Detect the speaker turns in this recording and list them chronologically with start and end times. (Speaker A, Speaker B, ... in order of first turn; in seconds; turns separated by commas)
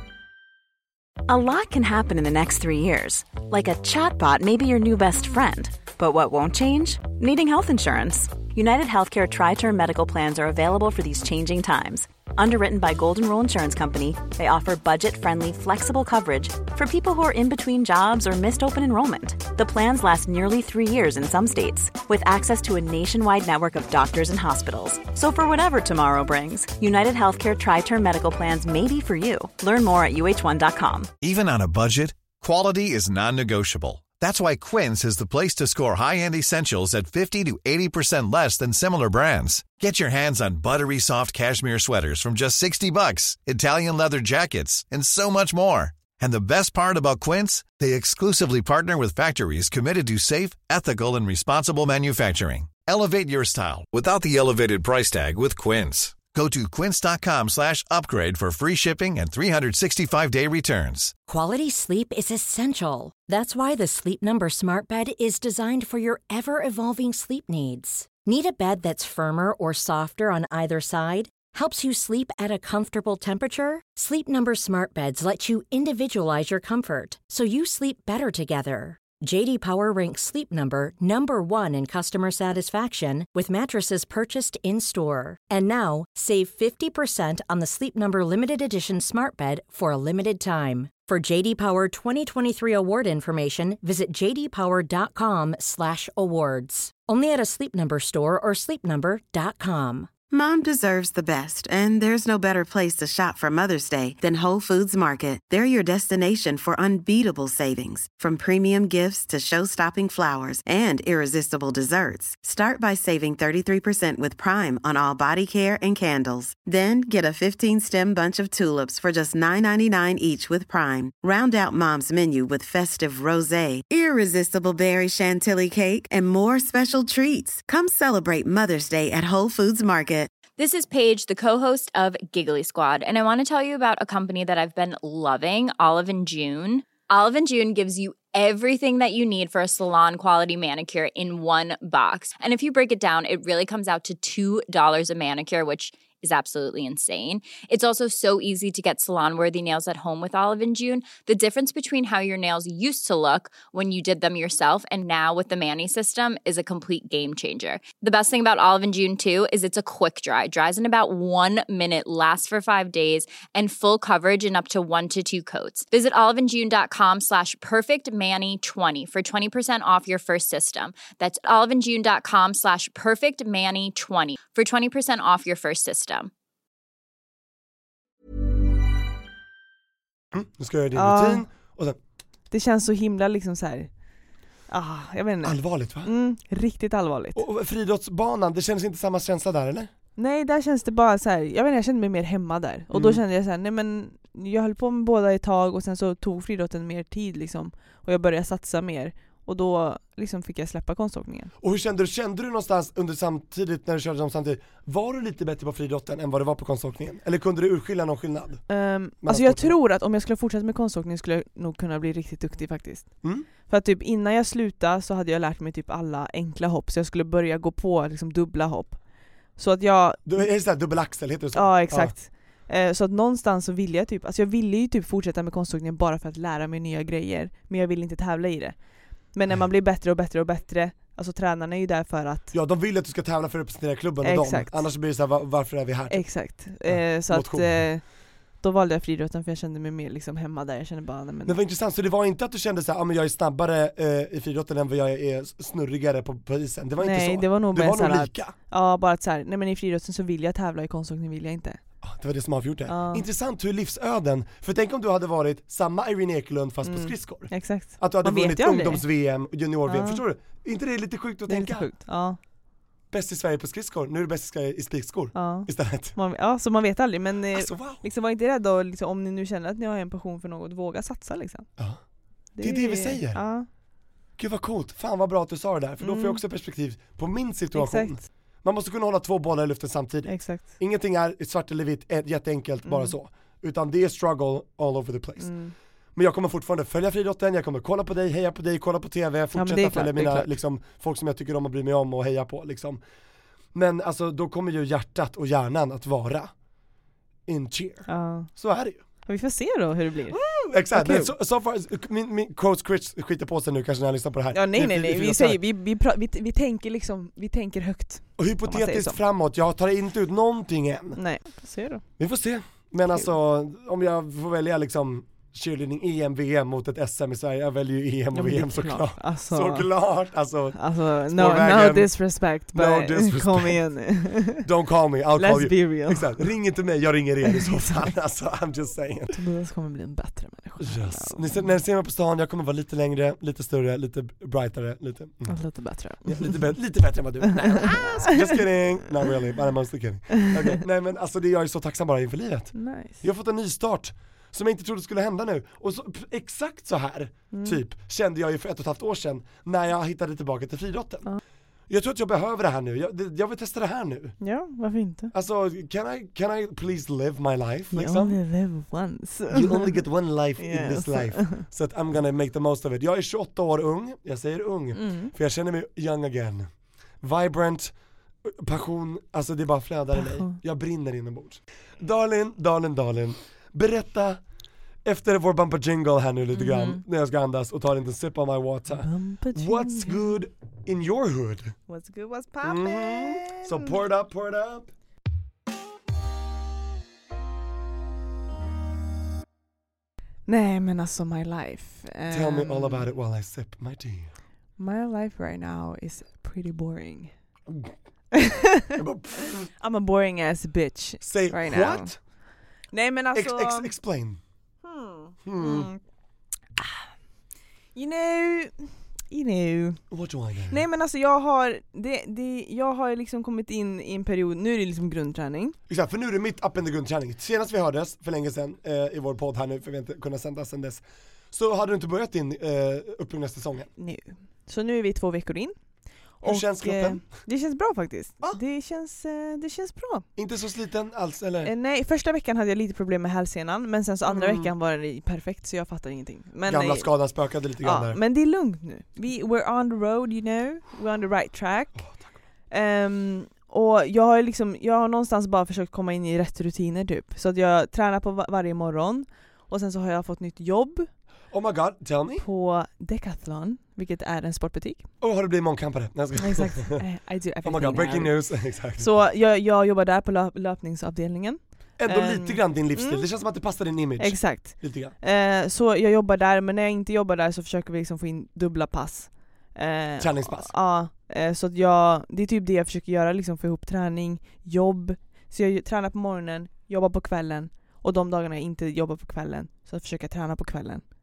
Speaker A: 1.3-31.1, Speaker B: 31.2-61.1, Speaker C: 61.3-100.1, Speaker D: 100.3-130.3, Speaker E: 130.6-176.3, Speaker F: 180.3-182.0, Speaker G: 180.9-181.4, Speaker G: 182.5-183.9, Speaker G: 184.7-187.4, Speaker F: 185.4-186.1, Speaker F: 187.3-189.9, Speaker G: 190.2-201.5, Speaker F: 192.9-193.2, Speaker F: 201.6-208.7, Speaker G: 208.7-219.0, Speaker F: 209.2-209.8, Speaker F: 213.2-213.5, Speaker G: 219.6-220.5, Speaker F: 220.2-222.2, Speaker G: 221.5-232.5, Speaker F: 232.5-237.8, Speaker G: 234.2-234.9, Speaker G: 236.1-238.0, Speaker G: 238.6-241.6, Speaker F: 241.5-248.6, Speaker G: 247.0-251.8, Speaker F: 252.0-261.9, Speaker G: 252.9-253.3, Speaker G: 256.8-259.0, Speaker G: 259.9-260.2, Speaker G: 261.5-262.4, Speaker F: 263.1-266.2, Speaker G: 265.3-271.7, Speaker F: 267.5-268.0, Speaker G: 272.6-273.7, Speaker F: 272.6-273.4, Speaker F: 274.4-285.5, Speaker G: 276.0-276.4, Speaker G: 277.7-278.2, Speaker G: 280.3-280.7, Speaker G: 282.9-283.1, Speaker G: 285.4-285.7, Speaker F: 286.2-293.0, Speaker G: 289.5-290.5, Speaker F: 293.7-296.5, Speaker F: 297.5-299.0, Speaker G: 298.1-298.5, Speaker G: 299.2-300.4, Speaker F: 300.3-305.6, Speaker G: 300.9-301.3, Speaker G: 304.5-309.2, Speaker F: 308.4-311.2, Speaker G: 311.2-312.0, Speaker F: 312.2-322.1, Speaker G: 318.3-319.9, Speaker G: 320.8-324.6, Speaker F: 322.7-323.8, Speaker F: 324.6-329.4, Speaker G: 325.4-326.5, Speaker G: 327.5-328.1, Speaker G: 329.3-331.7, Speaker F: 330.8-335.6, Speaker G: 335.5-336.7, Speaker F: 336.2-351.3, Speaker G: 337.6-338.2, Speaker G: 342.8-343.2, Speaker G: 347.5-347.8, Speaker F: 351.9-354.4, Speaker G: 354.4-355.3, Speaker F: 355.3-358.4, Speaker G: 357.9-360.0, Speaker F: 359.5-366.7, Speaker G: 360.6-361.6, Speaker G: 364.9-365.3, Speaker F: 367.2-367.9, Speaker F: 368.5-374.4, Speaker G: 370.1-370.6, Speaker F: 375.1-381.8, Speaker G: 376.5-377.0, Speaker G: 378.9-380.2, Speaker G: 381.9-384.0, Speaker F: 382.6-384.9, Speaker G: 390.5-393.1, Speaker F: 392.3-394.3, Speaker G: 394.8-397.3, Speaker G: 398.3-399.0, Speaker F: 399.0-399.7, Speaker G: 399.8-402.1, Speaker F: 401.2-402.2, Speaker G: 402.9-403.9, Speaker F: 403.3-404.4, Speaker G: 404.8-406.0, Speaker F: 405.4-405.9, Speaker G: 407.9-410.0, Speaker F: 410.1-410.8, Speaker G: 410.7-415.8, Speaker F: 415.9-423.9, Speaker G: 424.0-425.8, Speaker F: 426.4-427.3, Speaker G: 426.4-430.3, Speaker F: 430.4-431.7, Speaker G: 431.6-437.1, Speaker F: 434.3-434.7, Speaker F: 436.7-438.2, Speaker G: 437.8-442.0, Speaker F: 442.0-442.3, Speaker G: 442.7-451.1, Speaker F: 451.5-452.4, Speaker G: 452.4-455.1, Speaker F: 455.2-457.0, Speaker G: 456.4-463.2, Speaker F: 457.6-459.1, Speaker F: 462.0-465.1, Speaker G: 464.2-481.0, Speaker F: 470.2-470.7